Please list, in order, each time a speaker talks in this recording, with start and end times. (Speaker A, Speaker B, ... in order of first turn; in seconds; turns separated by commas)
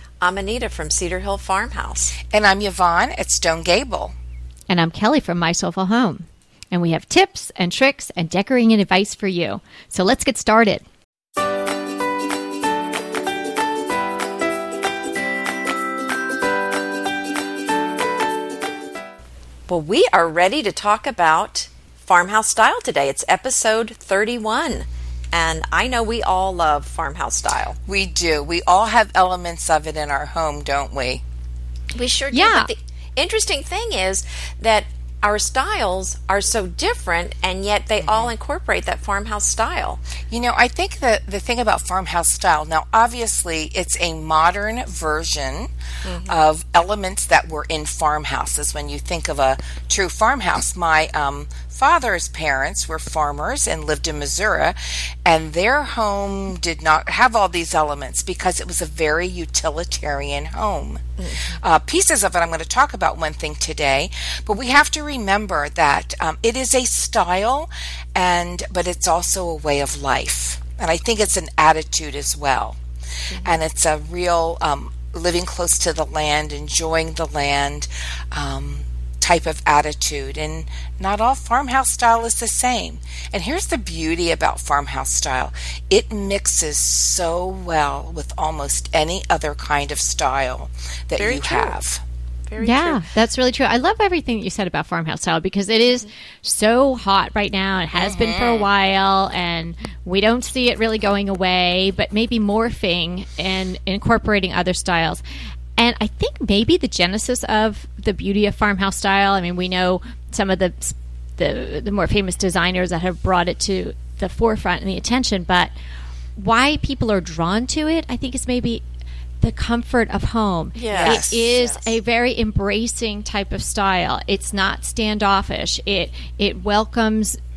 Speaker A: 0.2-2.2, Speaker B: 2.3-4.1, Speaker C: 4.7-10.8, Speaker A: 19.7-27.8, Speaker B: 27.9-31.2, Speaker A: 31.9-40.0, Speaker C: 32.3-32.7, Speaker B: 38.0-38.3, Speaker B: 40.3-45.7, Speaker A: 46.0-46.4, Speaker B: 46.3-72.8, Speaker A: 61.2-61.6, Speaker A: 73.3-73.6, Speaker B: 73.4-92.0, Speaker A: 91.2-91.8, Speaker A: 92.5-93.1, Speaker C: 92.6-105.2, Speaker B: 97.9-98.7, Speaker C: 105.8-115.7, Speaker C: 116.4-118.8, Speaker C: 119.4-127.4, Speaker A: 120.8-121.9, Speaker B: 121.0-121.5